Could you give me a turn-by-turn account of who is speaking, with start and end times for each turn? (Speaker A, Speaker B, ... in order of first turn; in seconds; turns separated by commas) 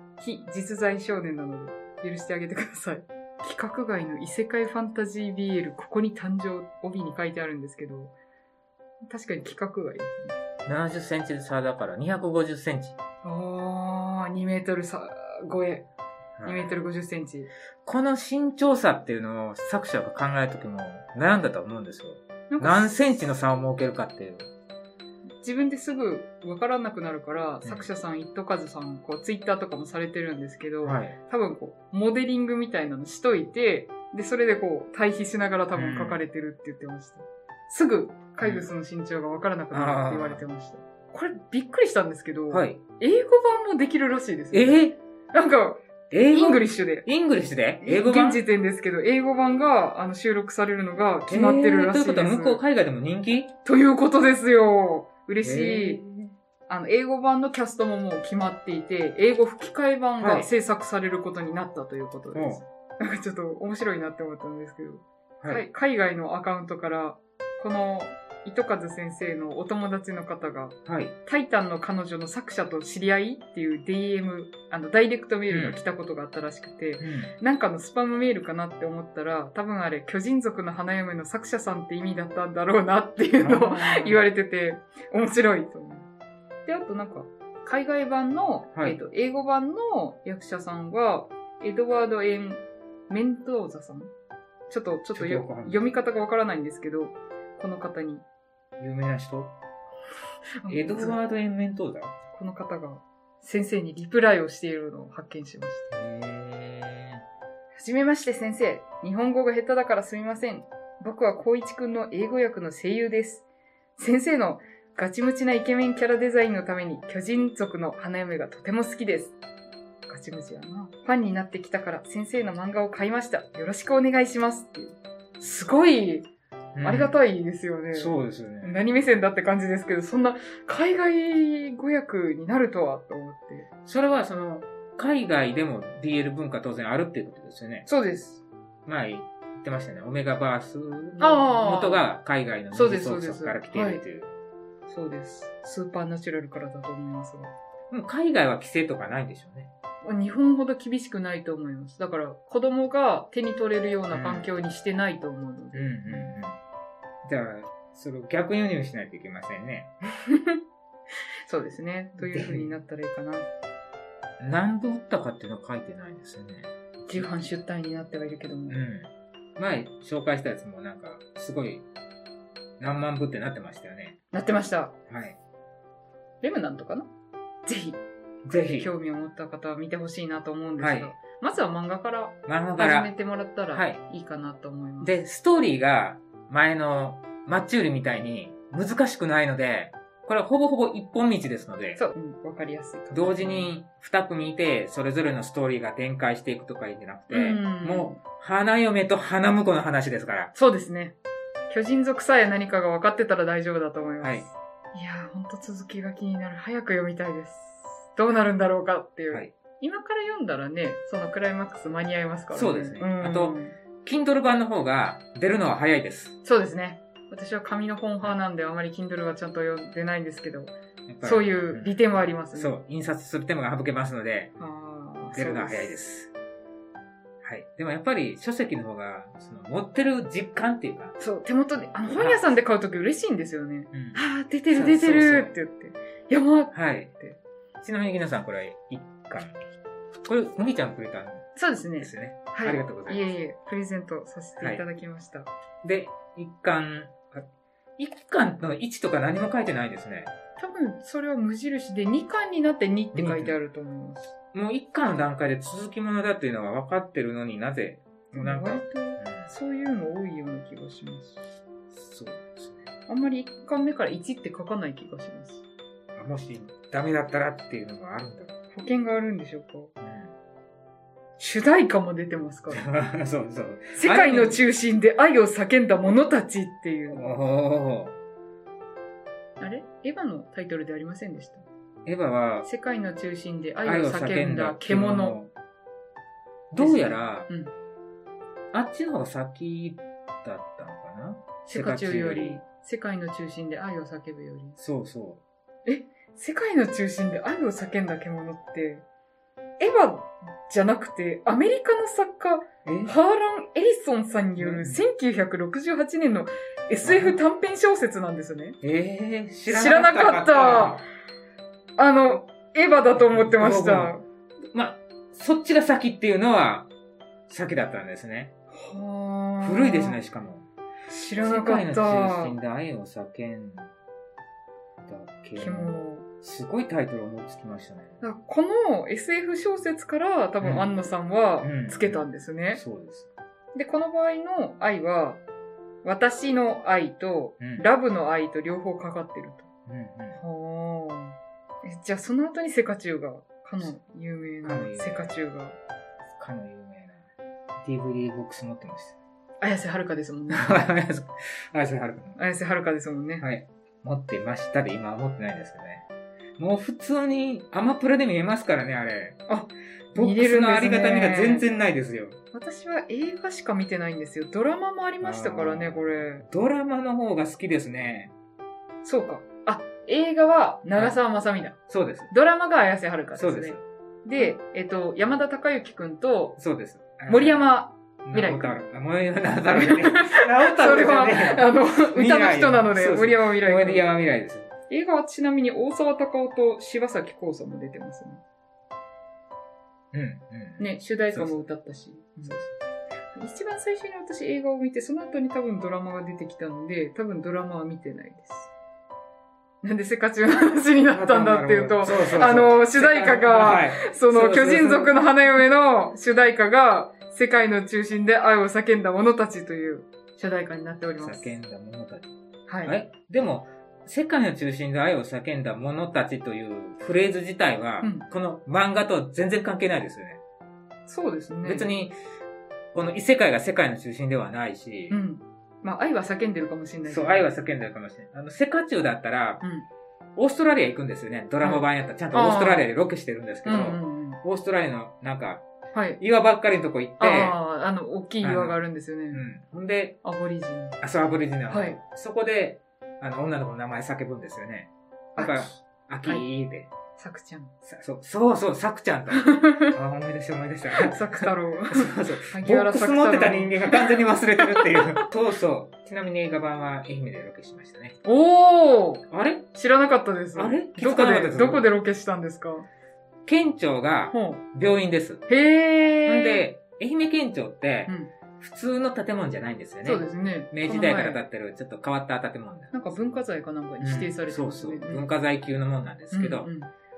Speaker A: 0.2-8.1, Speaker A: 9.1-10.3, Speaker B: 10.7-13.0, Speaker A: 13.2-15.9, Speaker B: 16.4-16.8, Speaker A: 16.4-17.5, Speaker B: 17.9-24.5, Speaker A: 22.5-23.2, Speaker A: 25.4-44.8, Speaker B: 27.6-27.9, Speaker B: 30.8-31.2, Speaker B: 35.8-36.2, Speaker B: 38.4-38.7, Speaker B: 39.7-40.4, Speaker B: 42.5-42.8, Speaker B: 44.5-45.0, Speaker A: 45.3-47.1, Speaker B: 46.1-48.4, Speaker A: 47.8-52.6, Speaker B: 51.3-53.5, Speaker A: 53.6-56.0, Speaker B: 55.4-56.3, Speaker A: 56.7-86.1, Speaker B: 60.2-60.5, Speaker B: 62.3-62.6, Speaker B: 65.4-65.7, Speaker B: 70.9-71.1, Speaker B: 75.5-75.8, Speaker B: 77.0-77.3, Speaker B: 83.4-84.2, Speaker A: 86.7-94.1, Speaker A: 94.7-98.2, Speaker B: 95.1-95.9, Speaker B: 98.8-99.5, Speaker A: 100.6-101.2, Speaker B: 100.7-102.1, Speaker A: 102.3-105.9, Speaker B: 105.9-107.2, Speaker A: 107.8-113.5, Speaker A: 114.0-119.4, Speaker A: 120.1-126.3, Speaker B: 126.8-127.1, Speaker A: 126.8-133.7, Speaker B: 127.9-128.9, Speaker B: 133.8-137.9, Speaker A: 137.9-138.4, Speaker B: 138.9-144.3, Speaker A: 141.2-142.1, Speaker A: 142.7-144.0, Speaker A: 144.9-147.5, Speaker B: 147.9-149.7, Speaker A: 150.0-156.3, Speaker B: 154.1-154.5, Speaker B: 155.7-156.6, Speaker B: 157.2-159.9, Speaker A: 160.3-160.6, Speaker A: 161.5-163.5, Speaker B: 162.2-162.7, Speaker B: 164.4-167.2, Speaker A: 167.1-168.8, Speaker B: 168.7-171.8, Speaker B: 172.8-174.2, Speaker A: 174.3-174.9, Speaker B: 175.1-175.4, Speaker A: 176.4-177.1, Speaker A: 177.7-178.0, Speaker B: 178.4-178.9, Speaker A: 178.8-185.2, Speaker B: 180.8-181.1, Speaker B: 182.5-183.1, Speaker B: 183.7-184.0, Speaker B: 185.0-192.0, Speaker A: 192.0-193.7, Speaker B: 193.1-200.5, Speaker A: 197.3-198.2, Speaker A: 200.5-201.2, Speaker A: 201.7-213.8, Speaker B: 212.5-216.4, Speaker A: 216.4-222.7, Speaker B: 221.1-222.0, Speaker B: 222.5-224.5, Speaker A: 224.6-226.0, Speaker B: 225.3-226.3, Speaker B: 227.4-231.1, Speaker A: 231.2-237.4, Speaker B: 232.1-232.4, Speaker B: 233.9-234.2, Speaker B: 234.7-235.5, Speaker B: 236.7-237.1, Speaker B: 237.8-239.6, Speaker B: 240.3-241.5, Speaker A: 241.6-245.5, Speaker B: 242.0-243.2, Speaker B: 245.8-247.5, Speaker B: 248.0-250.3, Speaker A: 250.6-254.3, Speaker B: 253.1-253.6, Speaker B: 254.5-259.5, Speaker A: 258.3-261.4, Speaker B: 261.9-262.9, Speaker A: 263.1-265.6, Speaker B: 266.2-268.6, Speaker A: 268.7-269.9, Speaker B: 270.0-270.3, Speaker A: 271.4-272.8, Speaker B: 272.7-274.6, Speaker A: 273.9-277.3, Speaker B: 277.1-278.2, Speaker A: 279.6-281.6, Speaker B: 282.1-282.7, Speaker A: 282.6-285.4, Speaker B: 283.8-285.5, Speaker B: 286.7-287.5, Speaker A: 286.8-287.7, Speaker B: 288.7-292.6, Speaker A: 291.7-294.8, Speaker B: 294.8-295.4, Speaker A: 295.9-299.0, Speaker A: 299.8-308.8, Speaker B: 302.9-303.1, Speaker B: 304.6-305.0, Speaker B: 307.0-307.4, Speaker B: 308.8-311.0, Speaker A: 309.7-311.0, Speaker A: 312.0-314.2, Speaker B: 313.2-314.1, Speaker B: 314.7-316.9, Speaker B: 317.5-318.5, Speaker A: 318.7-320.2, Speaker B: 319.6-320.6, Speaker A: 321.1-322.6, Speaker B: 321.4-323.9, Speaker B: 325.0-328.2, Speaker A: 325.6-326.3, Speaker A: 328.2-332.8, Speaker B: 330.6-330.9, Speaker B: 331.6-333.3, Speaker A: 333.8-335.4, Speaker A: 336.0-339.7, Speaker B: 337.6-337.9, Speaker B: 339.9-340.4, Speaker A: 340.4-345.8, Speaker B: 344.6-345.4, Speaker B: 346.4-347.3, Speaker B: 347.8-349.2, Speaker A: 349.6-350.9, Speaker B: 350.5-352.4, Speaker A: 352.4-353.4, Speaker B: 353.4-356.1, Speaker B: 356.6-359.4, Speaker A: 359.5-361.7, Speaker B: 360.1-362.4, Speaker A: 362.5-366.4, Speaker B: 365.2-368.3, Speaker A: 369.0-371.8, Speaker B: 371.9-372.3, Speaker A: 372.3-376.6, Speaker B: 373.4-373.8, Speaker B: 376.6-377.6, Speaker A: 377.3-378.8, Speaker B: 378.2-384.7, Speaker A: 379.7-384.1, Speaker A: 384.9-388.4, Speaker B: 390.1-391.6, Speaker A: 390.8-392.7, Speaker A: 393.4-398.7, Speaker A: 399.8-411.5, Speaker B: 401.1-405.1, Speaker B: 411.2-412.3, Speaker A: 412.7-412.9, Speaker B: 412.9-420.4, Speaker A: 421.1-421.9, Speaker B: 421.7-422.1, Speaker B: 422.9-425.2, Speaker A: 425.1-427.5, Speaker B: 427.1-429.6, Speaker B: 430.4-435.6, Speaker A: 431.6-432.9, Speaker A: 433.6-434.4, Speaker A: 435.9-436.2, Speaker B: 436.2-437.6, Speaker A: 437.2-439.5, Speaker B: 438.4-438.8, Speaker B: 439.3-440.2, Speaker A: 440.2-441.0, Speaker B: 441.0-446.9, Speaker A: 441.7-442.0, Speaker A: 445.4-446.4, Speaker A: 447.2-447.7, Speaker B: 447.9-458.2, Speaker A: 449.3-449.9, Speaker A: 451.0-455.3, Speaker A: 458.2-462.9, Speaker B: 459.3-459.7, Speaker B: 460.6-461.9, Speaker B: 463.5-465.5, Speaker A: 464.3-464.6, Speaker A: 465.5-466.6, Speaker B: 466.3-472.9, Speaker A: 470.0-471.4, Speaker A: 472.9-475.3, Speaker B: 474.0-476.7, Speaker A: 476.3-476.9